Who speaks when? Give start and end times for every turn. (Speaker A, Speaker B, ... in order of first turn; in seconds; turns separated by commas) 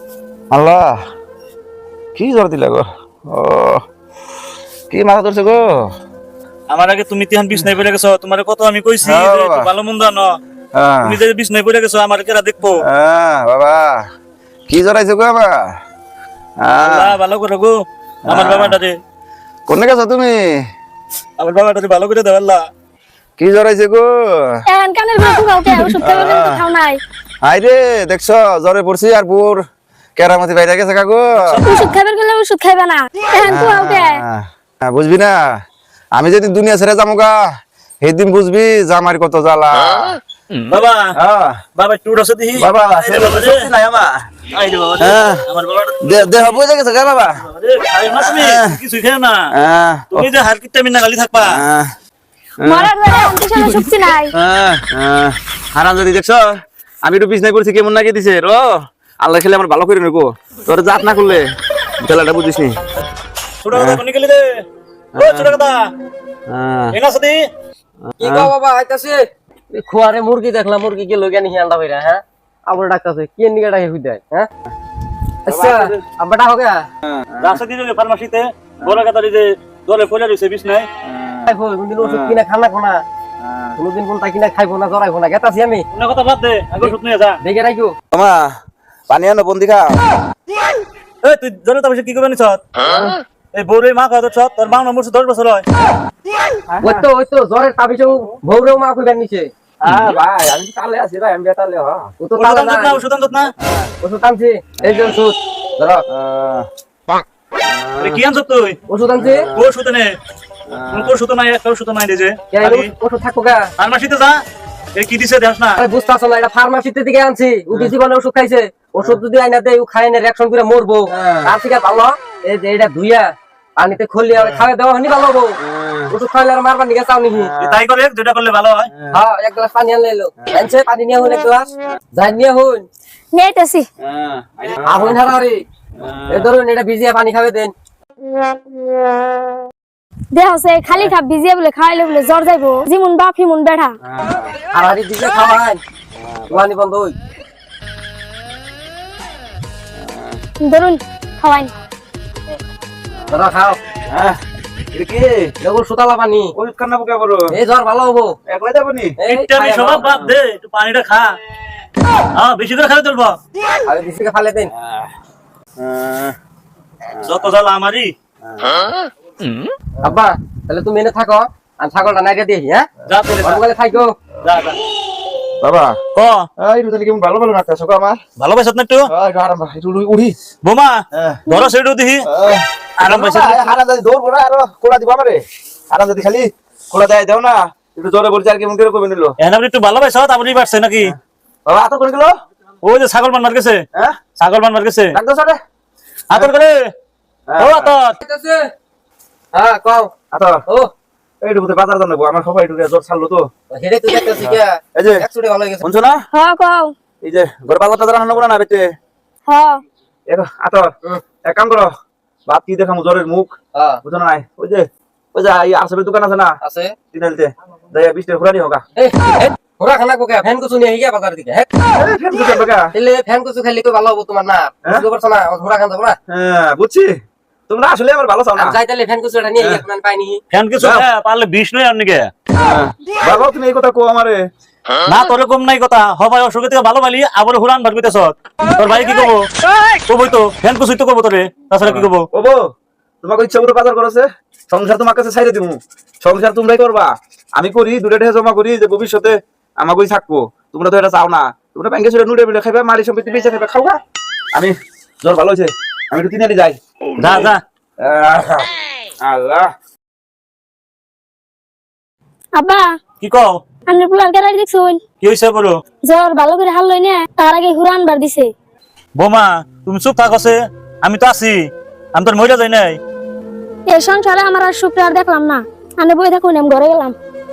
Speaker A: 0.5-1.0, Speaker A: 2.2-3.8, Speaker A: 4.9-5.8, Speaker B: 6.7-10.4, Speaker A: 9.0-9.7, Speaker A: 10.8-11.2, Speaker B: 11.0-12.8, Speaker A: 12.8-14.1, Speaker A: 14.7-15.8, Speaker A: 16.6-17.2, Speaker B: 16.8-17.8, Speaker A: 18.3-18.8, Speaker B: 18.3-19.0, Speaker A: 19.7-20.4, Speaker B: 21.4-22.7, Speaker A: 23.4-24.6, Speaker C: 24.7-27.0, Speaker A: 25.9-26.6, Speaker A: 27.4-29.6, Speaker A: 30.2-31.6, Speaker C: 31.6-34.2, Speaker A: 33.5-35.4, Speaker A: 36.1-37.4, Speaker A: 38.0-40.2, Speaker B: 40.6-41.1, Speaker A: 41.1-41.6, Speaker B: 41.8-43.7, Speaker A: 42.6-44.3, Speaker B: 44.5-46.6, Speaker A: 45.0-45.4, Speaker A: 46.0-47.5, Speaker B: 47.4-49.5, Speaker A: 48.2-48.8, Speaker A: 49.5-50.3, Speaker B: 50.1-51.6, Speaker A: 51.4-51.9, Speaker A: 52.6-52.9, Speaker C: 52.6-54.3, Speaker A: 54.3-58.6, Speaker A: 59.2-61.5, Speaker A: 62.0-62.8, Speaker B: 63.6-64.6, Speaker A: 63.7-64.0, Speaker A: 65.2-65.5, Speaker B: 65.2-65.8, Speaker A: 66.5-67.0, Speaker B: 66.9-67.4, Speaker A: 68.1-68.5, Speaker D: 68.2-69.2, Speaker D: 69.7-74.5, Speaker D: 75.5-76.8, Speaker A: 75.5-76.0, Speaker A: 77.0-77.6, Speaker B: 77.4-80.9, Speaker A: 78.8-79.1, Speaker A: 81.0-82.4, Speaker D: 81.5-83.0, Speaker A: 83.4-83.8, Speaker D: 83.8-85.8, Speaker B: 85.9-87.4, Speaker D: 86.8-87.9, Speaker A: 88.1-88.5, Speaker A: 89.1-90.0, Speaker B: 91.2-92.9, Speaker A: 92.8-93.2, Speaker B: 93.5-95.7, Speaker A: 96.7-97.1, Speaker D: 96.8-99.5, Speaker A: 99.8-102.1, Speaker B: 99.9-100.1, Speaker D: 102.2-103.0, Speaker B: 102.4-103.5, Speaker A: 103.6-103.9, Speaker D: 104.0-106.0, Speaker A: 106.1-106.7, Speaker A: 107.6-108.2, Speaker B: 108.0-108.8, Speaker D: 108.9-109.5, Speaker A: 109.2-109.7, Speaker B: 109.5-110.1, Speaker A: 110.7-111.2, Speaker B: 110.9-112.9, Speaker D: 112.5-113.7, Speaker B: 113.8-114.4, Speaker B: 115.0-115.8, Speaker D: 115.8-125.6, Speaker A: 121.1-121.5, Speaker A: 124.3-124.6, Speaker A: 125.6-126.1, Speaker D: 126.1-127.5, Speaker A: 127.3-127.8, Speaker B: 127.6-128.9, Speaker A: 128.9-129.2, Speaker D: 129.1-132.8, Speaker C: 133.3-133.8, Speaker A: 134.0-135.2, Speaker D: 134.9-135.6, Speaker A: 136.0-136.5, Speaker D: 136.3-137.7, Speaker C: 140.3-143.9, Speaker A: 144.0-144.6, Speaker D: 144.7-145.8, Speaker A: 146.2-146.6, Speaker D: 146.5-147.2, Speaker A: 150.0-150.4, Speaker C: 150.6-151.7, Speaker D: 153.3-153.8, Speaker A: 154.1-154.4, Speaker A: 154.9-155.5, Speaker D: 155.6-156.5, Speaker A: 156.6-157.5, Speaker D: 157.5-158.3, Speaker A: 158.5-159.2, Speaker D: 159.2-160.1, Speaker B: 159.3-161.3, Speaker B: 162.4-163.4, Speaker D: 163.9-164.7, Speaker A: 164.8-165.1, Speaker A: 165.8-166.4, Speaker A: 167.2-167.5, Speaker B: 167.2-168.1, Speaker A: 168.4-168.9, Speaker D: 170.0-172.9, Speaker B: 173.1-173.6, Speaker D: 173.4-174.1, Speaker B: 174.4-174.8, Speaker A: 175.6-176.0, Speaker B: 176.2-176.5, Speaker A: 176.6-178.2, Speaker B: 178.4-179.1, Speaker A: 179.1-180.4, Speaker B: 180.6-182.3, Speaker A: 181.1-181.4, Speaker C: 181.5-181.7, Speaker A: 182.2-189.4, Speaker B: 183.0-183.7, Speaker B: 189.4-191.1, Speaker A: 191.7-192.3, Speaker B: 192.8-193.8, Speaker B: 194.4-195.1, Speaker A: 195.1-195.6, Speaker B: 196.3-196.9, Speaker A: 197.5-198.0, Speaker B: 197.6-198.2, Speaker D: 198.2-198.6, Speaker D: 199.5-200.1, Speaker A: 200.3-200.6, Speaker A: 201.4-203.4, Speaker D: 203.7-205.8, Speaker A: 204.4-205.2, Speaker A: 205.8-206.2, Speaker C: 206.3-206.9, Speaker A: 207.2-208.8, Speaker C: 209.5-209.8, Speaker A: 210.3-210.9, Speaker A: 211.4-211.9, Speaker A: 212.5-213.5, Speaker D: 213.8-214.0, Speaker A: 214.0-216.6, Speaker D: 216.6-217.0, Speaker A: 217.1-218.8, Speaker D: 219.0-221.7, Speaker A: 221.9-222.9, Speaker D: 222.9-226.2, Speaker A: 226.3-227.1, Speaker A: 227.7-228.8, Speaker D: 228.6-230.4, Speaker A: 229.6-229.8, Speaker B: 230.5-232.3, Speaker A: 230.8-231.1, Speaker A: 232.5-234.4, Speaker B: 235.0-239.4, Speaker B: 240.1-242.3, Speaker A: 241.8-242.6, Speaker A: 243.2-254.0, Speaker A: 254.5-256.8, Speaker B: 257.2-257.6, Speaker A: 258.0-258.7, Speaker A: 259.2-259.7, Speaker C: 262.6-262.9, Speaker B: 263.2-263.6, Speaker C: 263.9-265.0, Speaker B: 265.2-265.8, Speaker C: 266.0-268.5, Speaker B: 269.2-273.0, Speaker C: 273.9-277.1